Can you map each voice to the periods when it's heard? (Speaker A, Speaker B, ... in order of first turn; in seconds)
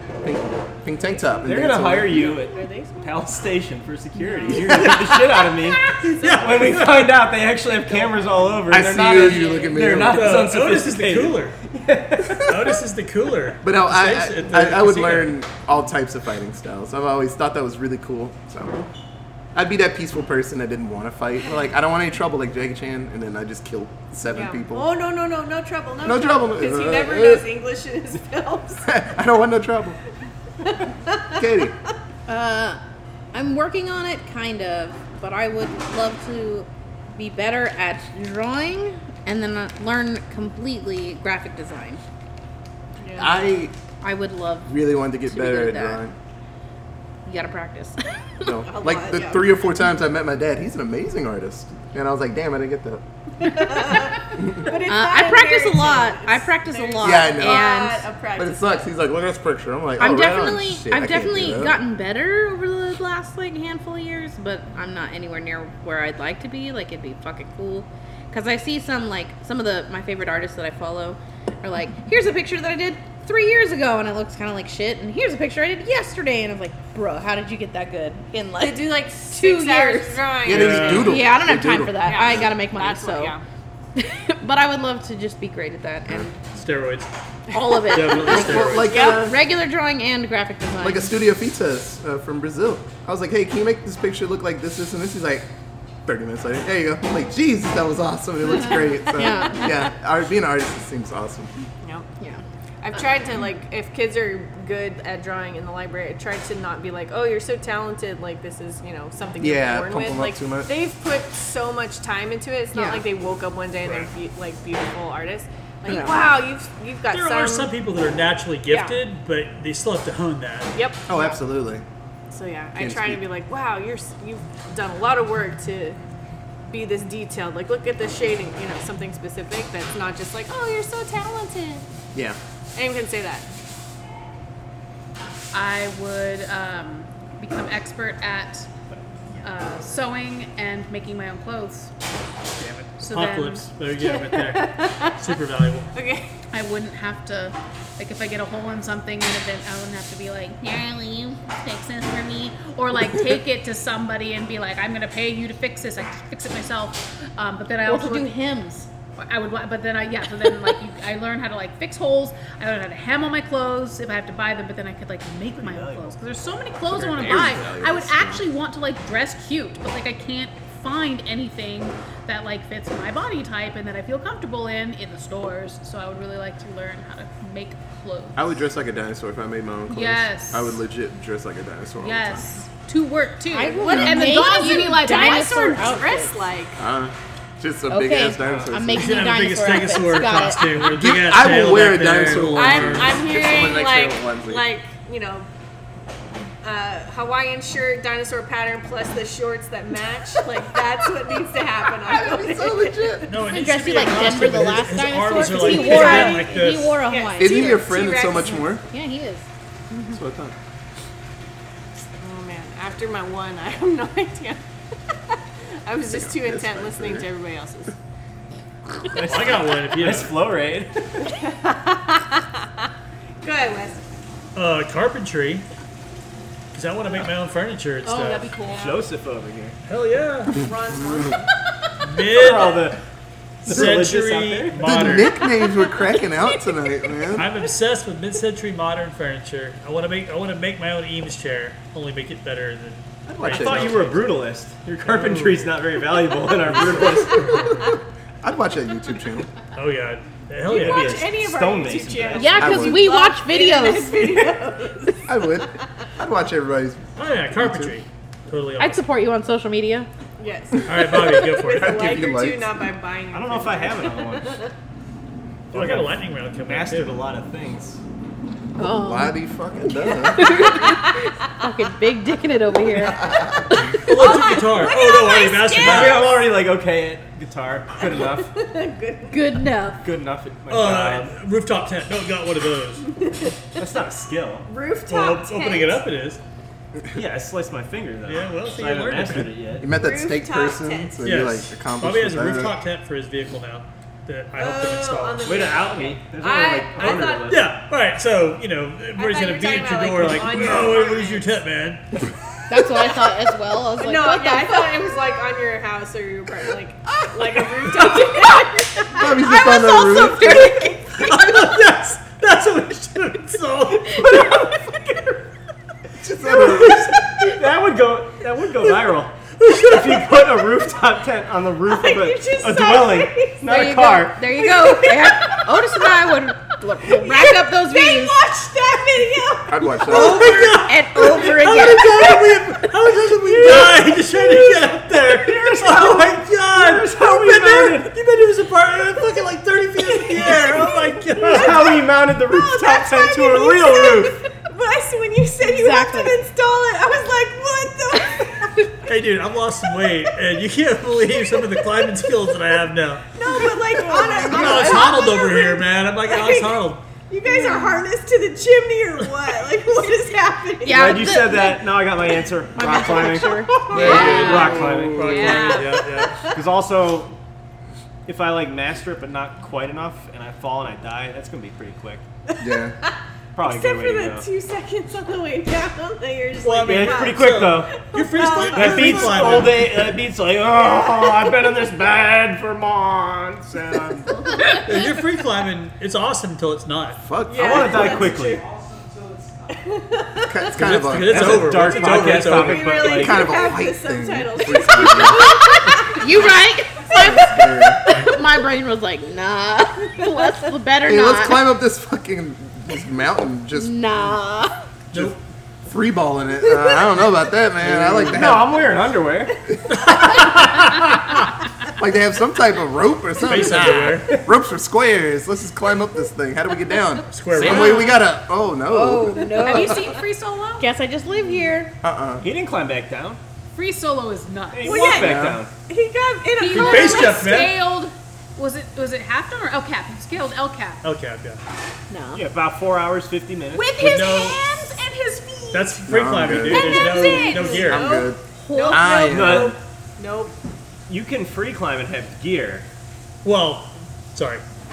Speaker A: 0.2-2.3, 8.7-10.5, 13.6-18.9, 19.5-24.9, 26.0-27.5, 28.8-30.0, 31.3-31.7, 43.1-43.7, 44.7-46.1, 48.4-53.0, 57.0-57.8, 58.4-61.8, 80.5-82.5, 88.3-89.4, 90.8-95.5, 96.0-101.5, 109.4-110.7, 121.1-121.8, 122.8-123.2, 166.9-168.4, 178.3-182.5, 186.8-189.2, 190.8-194.7, 202.1-203.3, 207.4-208.8, 210.1-210.6, 216.1-217.3, 234.8-237.5, 243.3-244.1, 248.4-249.6, 252.6-253.1, 255.2-258.0, 261.0-262.8, 268.9-270.6, 273.2-273.5, 289.8-292.8, 309.1-310.8, 316.2-317.1, 329.7-330.7, 363.9-365.5, 372.6-372.9, 387.2-388.3, 390.5-391.9, 393.0-395.6, 397.1-398.2, 401.1-404.4, 405.8-408.8, 410.1-410.4, 412.0-420.1, 422.0-422.4, 425.2-425.6, 436.0-437.0, 437.9-438.4, 438.9-439.7
Speaker B: 1.1-1.5, 2.2-3.2, 4.3-4.9, 5.9-6.7, 7.9-8.2, 9.0-9.9, 24.3-28.9, 30.6-31.4, 43.0-43.4, 48.6-49.6, 53.4-58.9, 78.6-81.2, 82.0-83.4, 87.5-89.4, 99.2-99.5, 101.8-102.1, 102.8-117.7, 118.7-118.9, 120.7-121.3, 122.3-126.0, 126.7-131.8, 132.8-133.5, 144.0-145.3, 145.9-146.3, 183.7-186.7, 192.5-195.5, 196.6-203.5, 205.3-206.5, 207.0-208.7, 212.2-214.6, 215.1-217.9, 221.2-222.9, 223.4-224.0, 228.7-228.9, 230.6-231.9, 235.3-237.7, 250.7-255.7, 260.4-264.7, 270.7-271.2, 274.1-276.3, 278.0-279.6, 283.2-283.8, 284.7-286.0, 289.9-291.2, 294.5-297.6, 299.1-301.5, 303.9-311.8, 314.1-315.4, 316.4-317.6, 321.9-323.6, 324.5-326.2, 327.0-330.4, 340.0-348.9, 353.3-361.3, 363.1-366.6, 373.6-379.6, 381.0-381.5, 387.4-388.6, 389.7-390.7, 391.9-396.4, 417.7-418.0, 424.8-427.5, 434.1-434.4, 436.7-440.6
Speaker C: 1.4-12.8, 165.5-166.2, 167.0-167.7, 188.4-188.7, 219.1-221.3, 228.7-229.8, 232.3-233.0, 233.6-235.1, 243.4-247.8, 250.7-252.9, 263.3-264.6, 265.7-268.0, 275.7-278.5, 280.0-281.4, 283.8-284.7, 287.1-289.9, 295.4-297.7, 314.2-314.7, 316.5-324.4, 333.4-338.1, 341.4-344.4, 353.9-354.9, 360.9-365.8, 366.5-367.4, 368.2-372.2, 373.5-374.5, 376.8-384.3, 387.5-388.6, 391.1-393.5, 407.8-409.6, 422.4-423.4, 424.7-425.7, 432.3-434.0, 439.3-439.8, 441.1-442.9
Speaker D: 4.2-4.9, 32.3-32.8, 33.3-42.0, 44.0-44.7, 45.2-46.0, 47.2-48.5, 54.9-58.0, 60.0-80.2, 80.8-83.3, 83.9-86.4, 87.5-91.2, 99.1-99.9, 112.7-113.0, 115.9-116.3, 150.5-152.5, 157.8-158.9, 183.5-186.4, 187.9-190.8, 203.4-208.0, 208.8-210.2, 252.3-254.6, 258.8-260.1, 268.8-269.4, 269.9-273.9, 279.3-280.0, 302.7-305.0, 309.5-310.9, 323.6-328.4, 330.1-332.9, 345.6-346.4, 357.4-358.0, 360.8-361.9, 362.7-364.9, 395.2-401.7, 403.7-404.7, 418.8-420.2, 420.8-421.9, 432.1-432.4, 433.8-435.9, 436.7-438.0, 438.5-439.1
Speaker E: 6.0-7.1, 10.0-11.6, 12.4-15.4, 80.5-81.2, 86.5-87.1, 87.8-88.9, 117.1-120.7, 142.6-145.9, 188.9-193.2, 203.3-207.0, 219.2-220.3, 224.6-225.7, 226.7-228.5, 229.9-230.6, 232.0-232.9, 233.6-235.3, 237.3-244.3, 245.0-245.8, 246.7-247.9, 249.7-251.2, 257.2-259.0, 260.9-261.9, 265.7-267.2, 274.0-276.3, 280.7-283.1, 285.1-286.4, 288.3-289.5, 291.2-295.5, 297.0-302.0, 311.1-314.3, 319.6-320.3, 330.1-341.9, 349.1-353.3, 354.4-357.1, 363.9-366.4, 376.6-379.9, 384.8-387.2, 390.7-393.2, 405.1-405.4, 409.9-411.5, 413.4-414.4, 417.3-418.1, 426.7-427.8, 431.0-431.6, 434.0-434.6, 435.7-438.1, 443.4-444.6
Speaker F: 135.5-138.7, 139.4-141.9, 143.0-143.7, 146.5-150.7, 151.5-158.3, 159.2-178.6, 179.9-180.8, 182.0-185.7, 228.0-228.9, 364.1-364.4, 419.6-420.9, 423.7-425.2, 426.6-431.0